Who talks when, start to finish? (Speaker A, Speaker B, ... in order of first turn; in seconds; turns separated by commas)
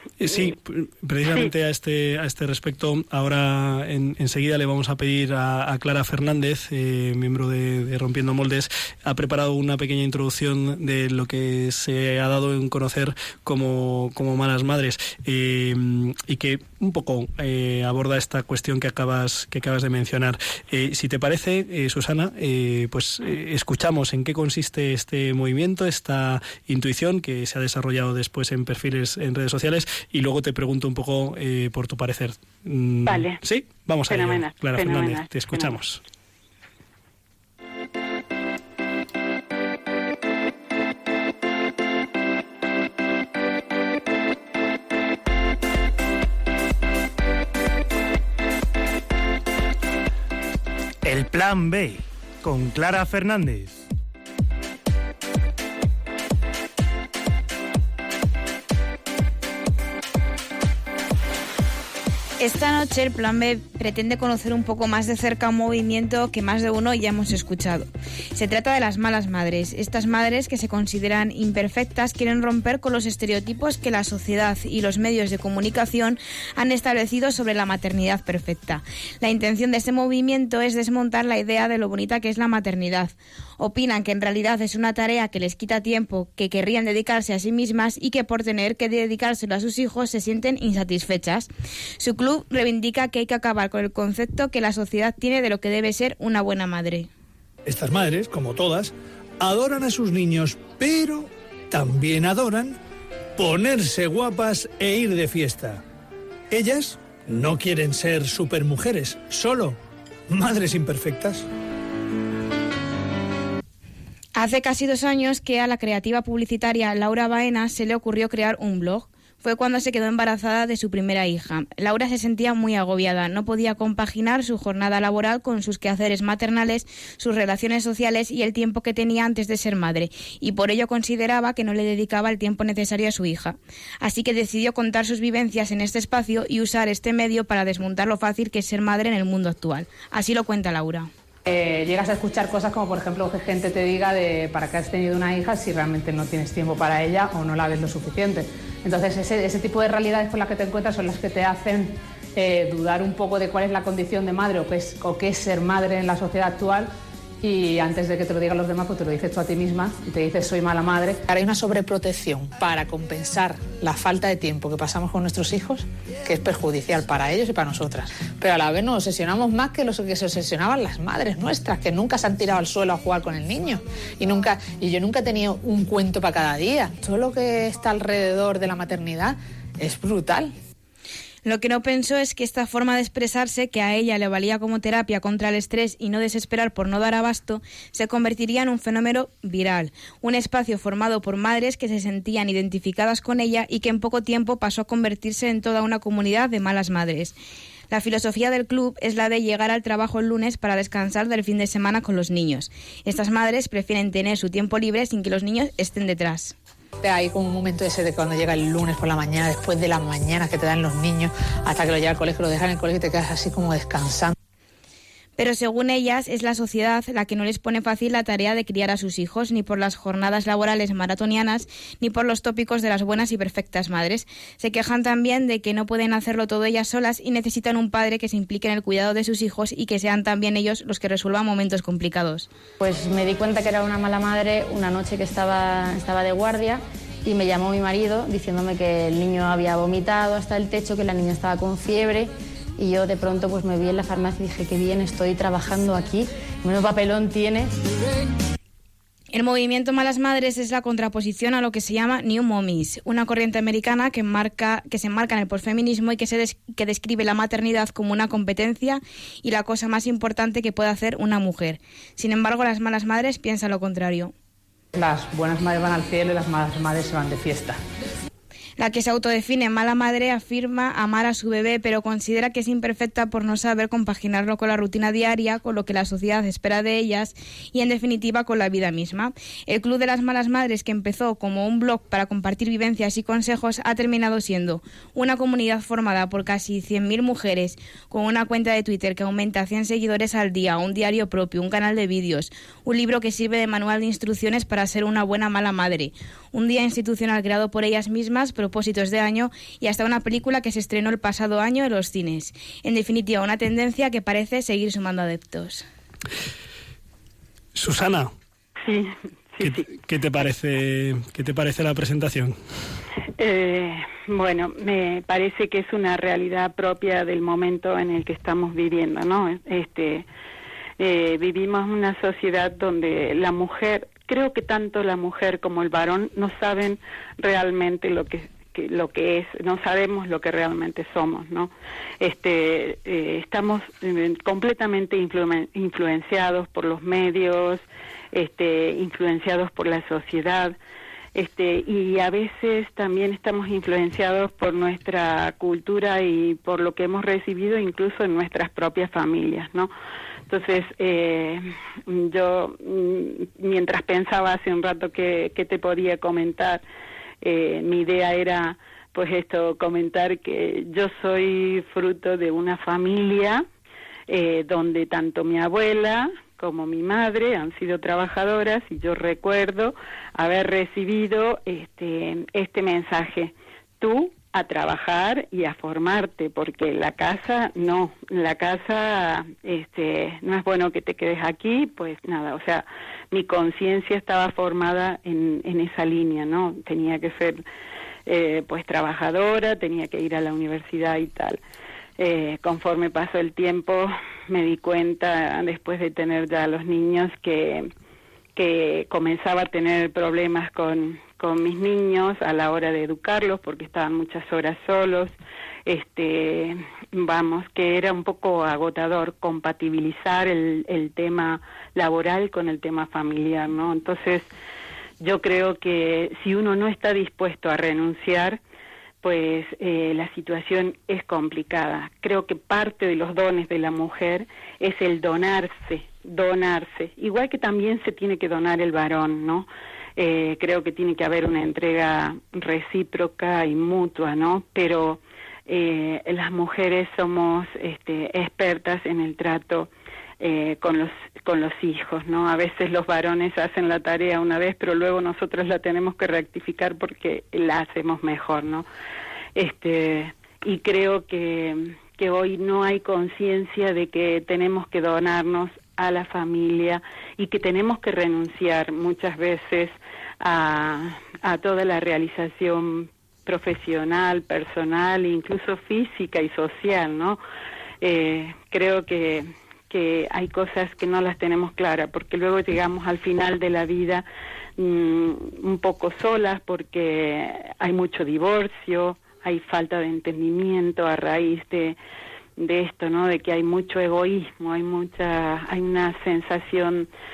Speaker A: 0.2-36.0, Speaker B: 33.0-33.4, Speaker B: 34.1-35.8, Speaker C: 51.0-53.8, Speaker D: 62.4-97.1, Speaker E: 97.7-102.8, Speaker E: 103.4-105.8, Speaker E: 106.5-109.8, Speaker E: 110.3-111.5, Speaker D: 114.4-141.1, Speaker F: 141.5-156.9, Speaker F: 157.4-161.2, Speaker G: 161.3-180.5, Speaker D: 181.4-197.3, Speaker D: 197.9-206.6, Speaker G: 207.0-214.3, Speaker D: 215.4-232.5, Speaker H: 232.8-247.7, Speaker D: 249.3-264.3, Speaker F: 264.9-267.8, Speaker D: 268.8-305.8, Speaker A: 307.8-308.3, Speaker B: 308.9-309.9, Speaker A: 309.6-312.6, Speaker B: 313.4-320.2, Speaker B: 321.0-340.8, Speaker B: 341.4-349.9, Speaker B: 350.5-356.8, Speaker B: 357.4-363.6, Speaker B: 364.3-387.6, Speaker B: 388.3-391.6, Speaker B: 392.2-397.9, Speaker B: 398.6-405.3, Speaker B: 405.9-414.5, Speaker B: 415.2-418.6, Speaker B: 419.2-448.9, Speaker B: 449.6-467.4, Speaker B: 468.0-474.2, Speaker B: 474.8-482.0, Speaker B: 482.6-487.1